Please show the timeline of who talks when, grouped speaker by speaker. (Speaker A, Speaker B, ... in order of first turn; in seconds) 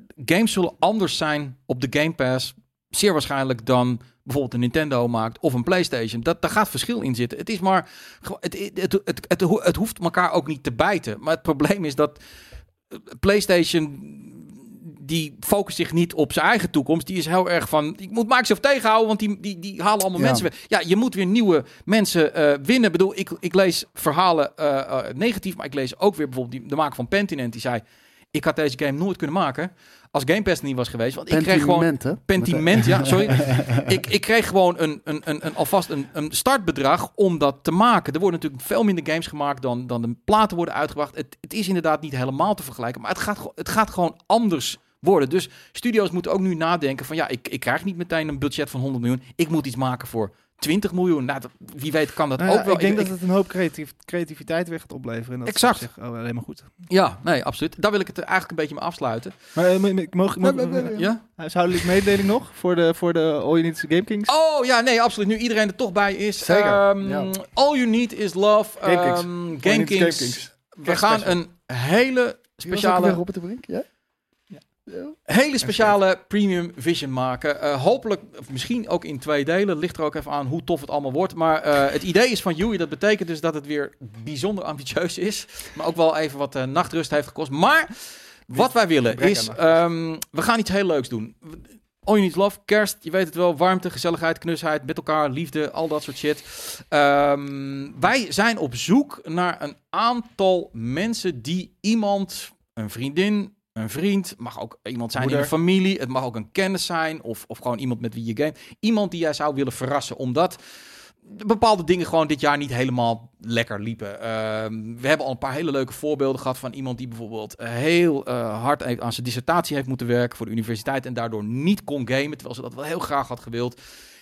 Speaker A: 0.2-12.2, 13.1-27.8, 28.3-53.1, 55.5-55.9, 56.9-59.3, 60.9-61.2, 64.3-73.2, 75.3-88.0, 88.5-110.6, 111.2-123.8
Speaker B: 20.1-20.5, 31.3-34.0, 60.4-61.1, 66.4-67.3, 72.7-73.8, 74.9-75.1
Speaker C: 52.4-56.7, 59.5-64.3, 68.8-71.3, 88.5-89.7, 105.2-105.5